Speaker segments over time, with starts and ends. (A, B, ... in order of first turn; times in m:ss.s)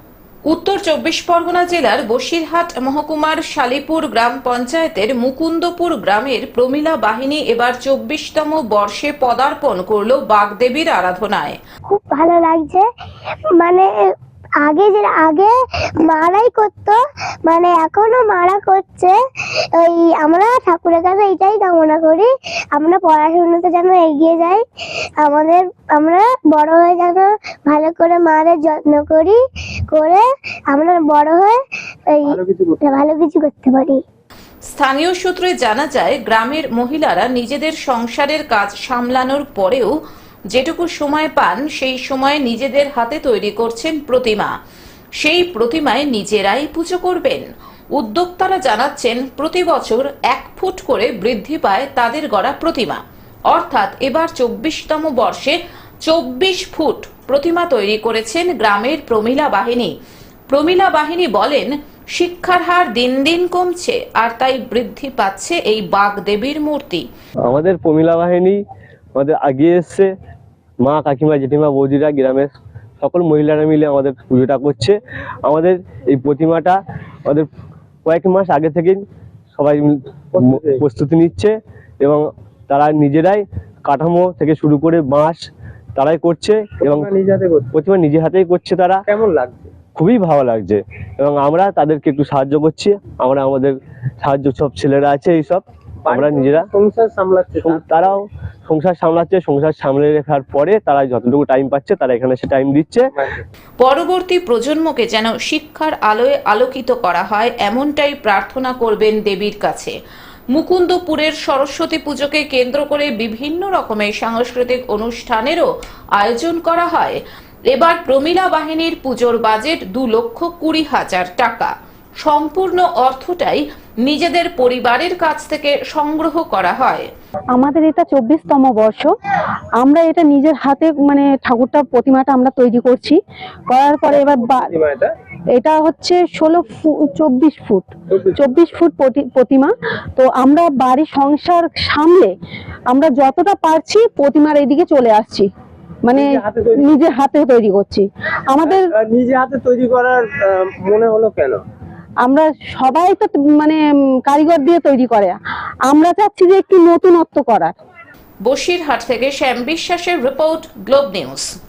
0:00.5-0:11.6 A
0:11.9-0:12.8 B
0:13.6-0:13.9 B
0:14.6-0:15.5 B
0:16.0-0:19.2 B
0:19.8-0:24.6 B
0:25.2-0:29.4 B
0:29.9-0:31.6 B
0:32.1-0:34.0 B
0:32.2-0:32.9 C
0:34.7-0:39.9 A
0:40.5-0:44.5 A
0:45.2-0:47.4 A
0:48.0-0:53.0 A
0:53.5-0:59.9 A
1:00.5-1:07.1 A
1:07.5-1:08.6 D
1:09.2-1:10.1 D
1:10.8-1:12.5 D
1:13.0-1:17.5 D
1:18.1-1:19.0 D
1:19.6-1:25.4 D
1:20.3-1:20.8 C
1:26.0-1:27.1 D
1:26.8-1:27.7 C
1:27.7-1:29.0 D
1:29.1-1:29.7 C
1:30.0-1:36.7 D
1:36.1-1:38.1 C
1:37.6-1:43.1 D
1:43.8-1:50.0 A
1:50.5-1:57.2 A
1:57.7-2:01.7 A
2:02.2-2:07.1 A
2:07.6-2:09.1 E
2:09.8-2:13.2 E
2:13.7-2:14.7 E
2:14.1-2:15.1 C
2:15.6-2:22.3 E
2:18.1-2:18.6 C
2:22.9-2:25.5 E
2:26.1-2:27.0 C
2:26.9-2:28.1 E
2:28.6-2:31.6 C
2:32.2-2:35.4 E
2:35.9-2:37.7 E
2:38.4-2:41.5 A